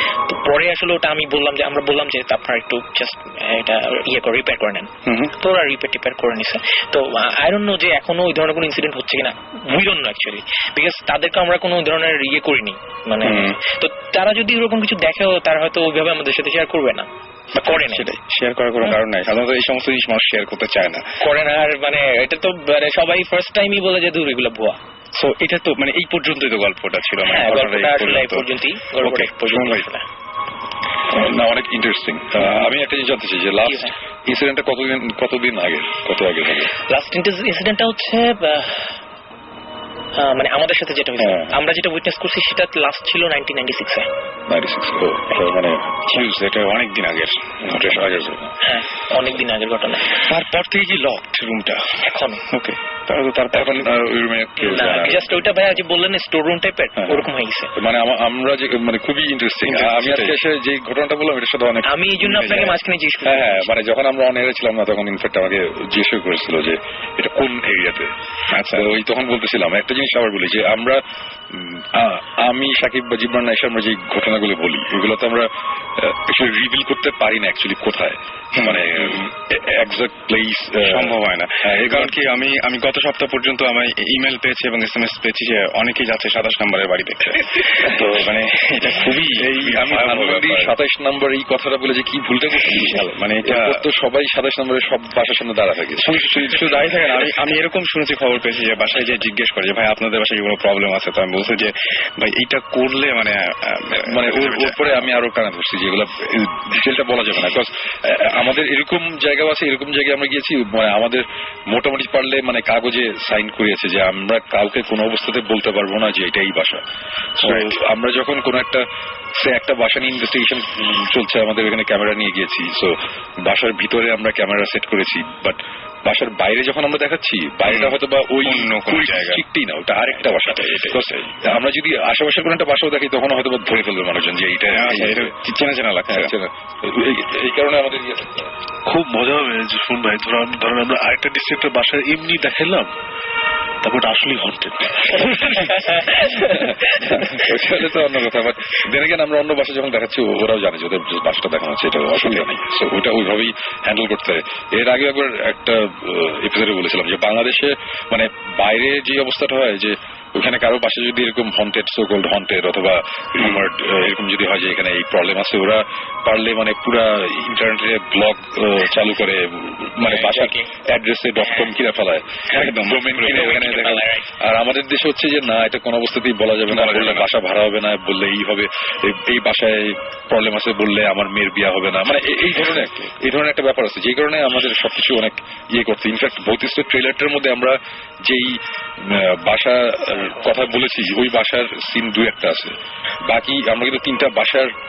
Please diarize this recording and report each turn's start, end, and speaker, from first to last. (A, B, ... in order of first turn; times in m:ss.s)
0:00.2-0:18.1 A
0:05.1-0:05.3 B
0:13.2-0:13.6 B
0:17.6-0:21.0 B
0:21.2-0:24.8 A
0:25.2-0:28.4 B
0:27.2-0:30.0 A
0:29.0-0:29.8 B
0:31.1-0:36.7 C
0:33.6-0:34.0 A
0:36.9-0:39.0 A
0:40.2-0:44.1 A
0:44.5-0:46.0 C
0:46.1-0:48.4 B
0:47.7-0:48.5 C
0:48.6-0:50.2 A
0:50.1-0:54.0 B
0:52.0-0:52.4 A
0:53.5-0:55.4 C
0:54.6-0:57.7 A
0:57.0-1:22.2 C
0:59.6-1:00.4 B
1:01.8-1:03.7 A
1:08.5-1:08.9 B
1:18.5-1:19.2 B
1:20.8-1:30.8 B
1:29.3-1:37.3 C
1:32.6-1:33.8 B
1:36.0-1:45.0 B
1:44.0-1:56.8 C
1:57.4-1:58.8 C
1:57.4-1:57.7 B
1:59.4-2:15.3 C
2:07.7-2:09.4 B
2:10.1-2:11.3 B
2:14.7-2:16.3 B
2:16.1-2:18.5 C
2:18.9-2:22.9 D
2:23.8-2:25.9 D
2:26.2-3:12.7 C
2:32.2-2:32.5 B
2:50.0-2:50.7 A
2:52.5-2:53.7 B
2:53.3-2:54.3 A
2:56.7-2:57.3 B
3:02.6-3:03.1 B
3:13.3-3:14.7 C